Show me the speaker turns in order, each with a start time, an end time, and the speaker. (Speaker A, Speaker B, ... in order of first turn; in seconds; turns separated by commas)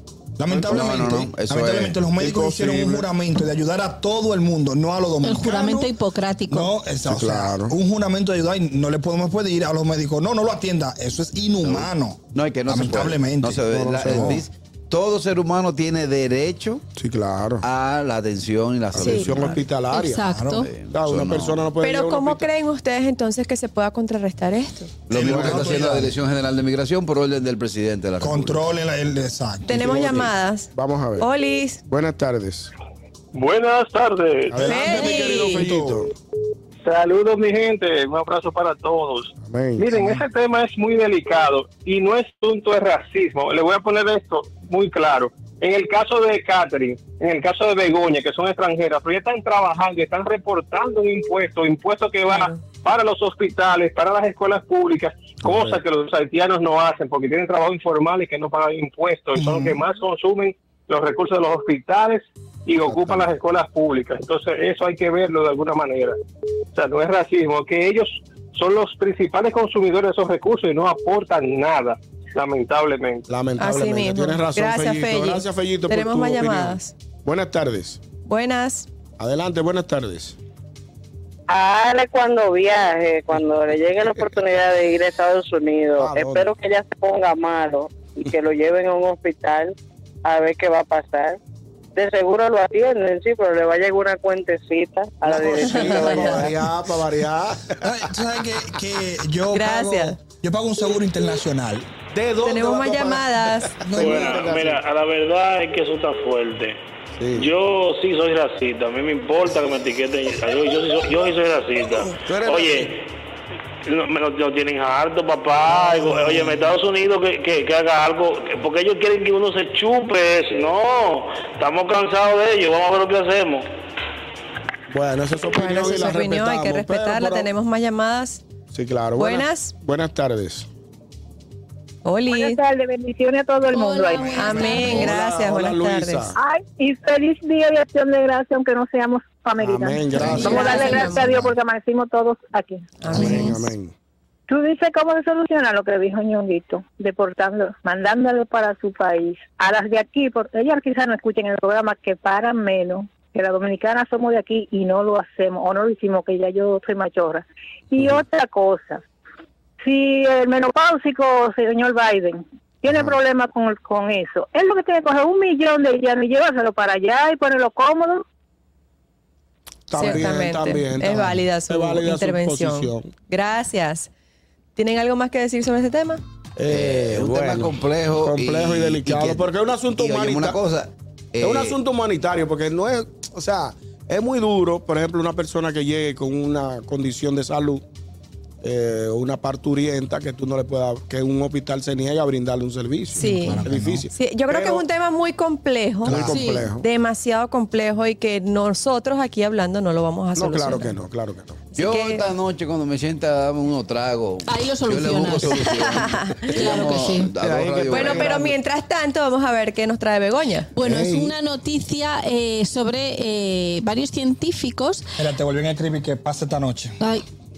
Speaker A: 0.4-5.9, Speaker B: 0.5-1.2, Speaker C: 0.6-2.1, Speaker B: 2.2-3.1, Speaker D: 5.2-6.7, Speaker A: 6.5-14.4, Speaker B: 7.1-7.8, Speaker C: 11.6-16.8, Speaker B: 13.7-14.4, Speaker B: 17.0-17.6, Speaker C: 17.6-19.6, Speaker B: 18.9-20.2, Speaker E: 19.0-19.4, Speaker D: 19.9-20.7, Speaker A: 20.2-20.6, Speaker C: 20.6-21.7, Speaker B: 20.9-22.5, Speaker E: 21.8-24.9, Speaker C: 25.1-28.6, Speaker A: 25.1-26.2, Speaker B: 25.1-25.8, Speaker A: 28.2-30.1, Speaker E: 29.7-31.8, Speaker B: 29.7-31.3, Speaker B: 31.9-32.7, Speaker F: 33.3-34.9, Speaker B: 34.5-36.1, Speaker E: 34.6-35.7, Speaker F: 36.9-66.2, Speaker B: 39.4-40.0, Speaker E: 52.3-52.6, Speaker B: 55.4-55.8, Speaker A: 59.4-59.8, Speaker B: 62.9-63.2, Speaker F: 66.7-73.3, Speaker B: 73.3-78.0, Speaker E: 73.6-76.9, Speaker E: 78.2-78.9, Speaker B: 79.2-80.4, Speaker G: 81.5-89.7, Speaker B: 86.0-86.5, Speaker G: 90.2-91.4, Speaker G: 92.0-96.5, Speaker B: 95.2-97.9, Speaker E: 95.6-96.4, Speaker A: 96.1-96.5, Speaker A: 97.8-101.9, Speaker E: 99.5-100.2, Speaker B: 102.1-104.8, Speaker E: 102.4-103.8, Speaker A: 103.8-104.4, Speaker H: 103.9-106.8, Speaker B: 107.2-107.5, Speaker H: 107.3-113.1, Speaker B: 112.1-112.9, Speaker H: 113.8-123.7, Speaker B: 115.8-116.6, Speaker B: 124.9-127.5, Speaker E: 125.5-128.4, Speaker B: 128.7-130.7, Speaker E: 129.2-129.7, Speaker E: 132.1-132.6, Speaker I: 132.3-134.6, Speaker D: 133.7-135.1, Speaker E: 134.3-136.3, Speaker B: 134.6-136.4, Speaker I: 136.4-143.2, Speaker B: 139.6-141.2, Speaker E: 140.3-141.4, Speaker D: 140.6-140.9, Speaker E: 143.0-143.6, Speaker B: 143.1-143.9, Speaker D: 143.1-143.6, Speaker I: 144.5-159.0, Speaker I: 159.8-168.2, Speaker B: 169.9-173.1, Speaker E: 169.9-174.1, Speaker E: 174.8-176.2, Speaker B: 176.6-180.6, Speaker C: 176.7-181.8, Speaker B: 181.4-187.8, Speaker B: 188.6-194.9, Speaker E: 193.2-201.0, Speaker A: 193.2-194.1, Speaker B: 196.0-196.9, Speaker D: 196.3-196.7, Speaker B: 200.3-201.7, Speaker E: 201.7-202.2, Speaker C: 201.8-208.5, Speaker D: 204.5-205.7, Speaker E: 205.7-206.5, Speaker D: 206.5-207.3, Speaker B: 207.4-208.6, Speaker E: 207.9-210.7, Speaker D: 210.8-215.1, Speaker B: 210.8-211.3, Speaker A: 215.2-217.0